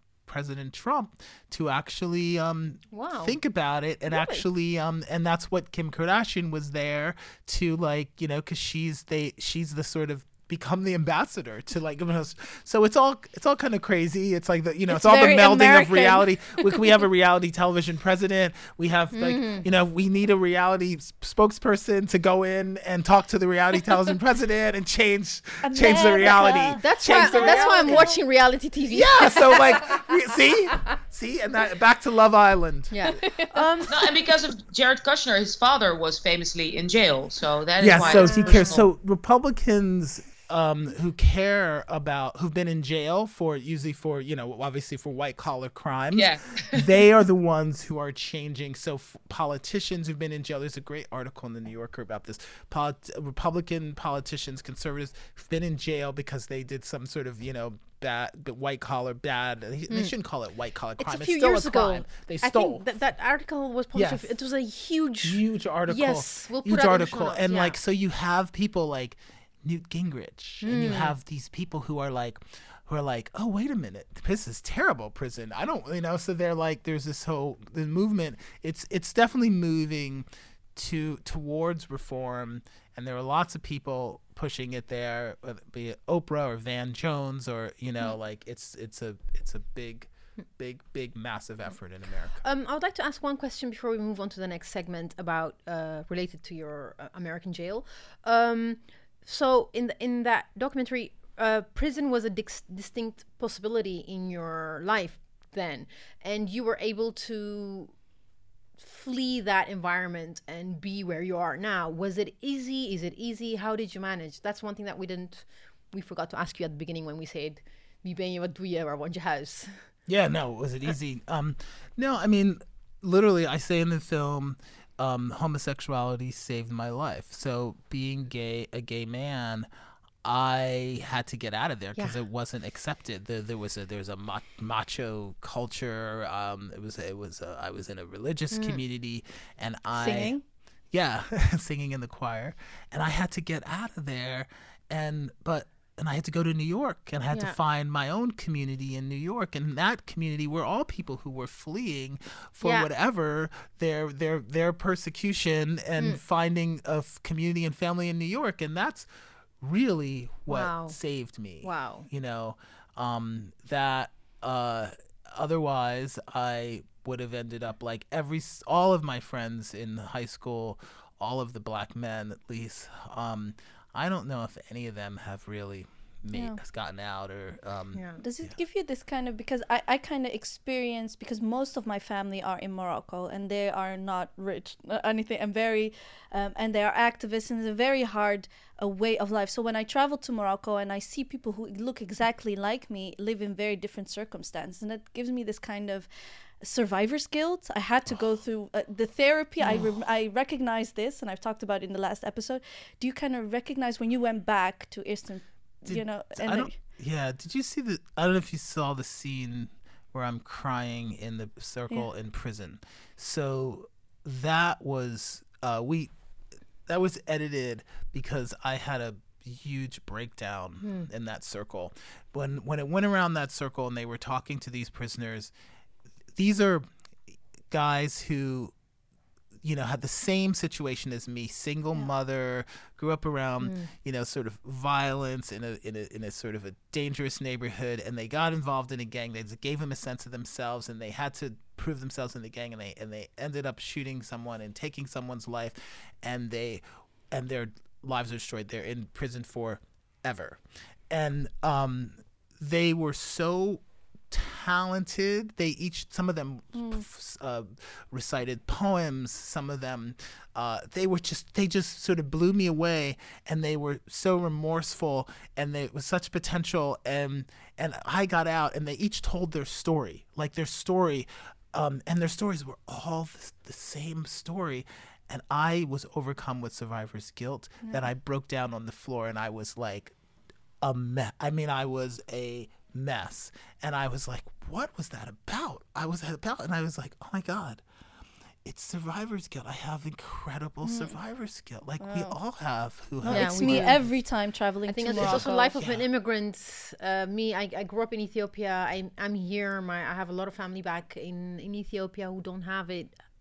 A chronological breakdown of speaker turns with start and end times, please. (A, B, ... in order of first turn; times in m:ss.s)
0:00.3-0:28.1 A
0:02.9-0:03.4 B
0:14.9-0:17.0 C
0:19.1-0:19.7 B
0:25.6-0:28.2 C
0:26.7-0:30.1 B
0:28.9-0:33.2 A
0:32.9-0:34.0 B
0:33.2-0:33.8 C
0:33.9-0:38.8 D
0:37.8-1:02.9 A
0:38.0-0:38.8 B
0:38.0-0:38.6 C
0:46.2-0:46.8 D
1:01.0-1:07.8 B
1:03.9-1:04.2 A
1:05.2-1:32.4 A
1:10.6-1:11.2 B
1:32.4-1:47.9 B
1:48.8-1:59.8 B
2:00.1-2:09.7 A
2:10.2-2:20.4 A
2:18.5-2:18.8 B
2:19.9-2:20.4 C
2:20.0-2:20.3 B
2:20.9-2:39.1 A
2:27.3-2:27.6 B
2:32.6-2:32.9 B
2:39.6-2:58.5 A
2:40.5-2:41.0 B
2:41.6-2:42.1 B
2:56.3-2:56.6 C
2:57.9-2:58.2 B
2:58.2-3:16.1 C
3:16.6-3:26.8 C
3:19.6-3:19.9 B
3:25.8-3:36.1 A
3:36.9-3:45.5 A
3:40.8-3:41.1 B
3:46.4-3:46.9 A
3:47.7-3:48.7 A
3:49.6-4:40.2 A
3:53.6-3:53.9 B
4:16.8-4:17.0 C
4:40.8-4:47.8 A
4:48.6-4:54.1 A
4:50.8-4:51.2 C
4:52.0-4:52.4 C
4:53.2-4:55.7 C
4:53.3-4:54.0 B
4:54.9-5:03.1 B
4:55.1-4:56.1 A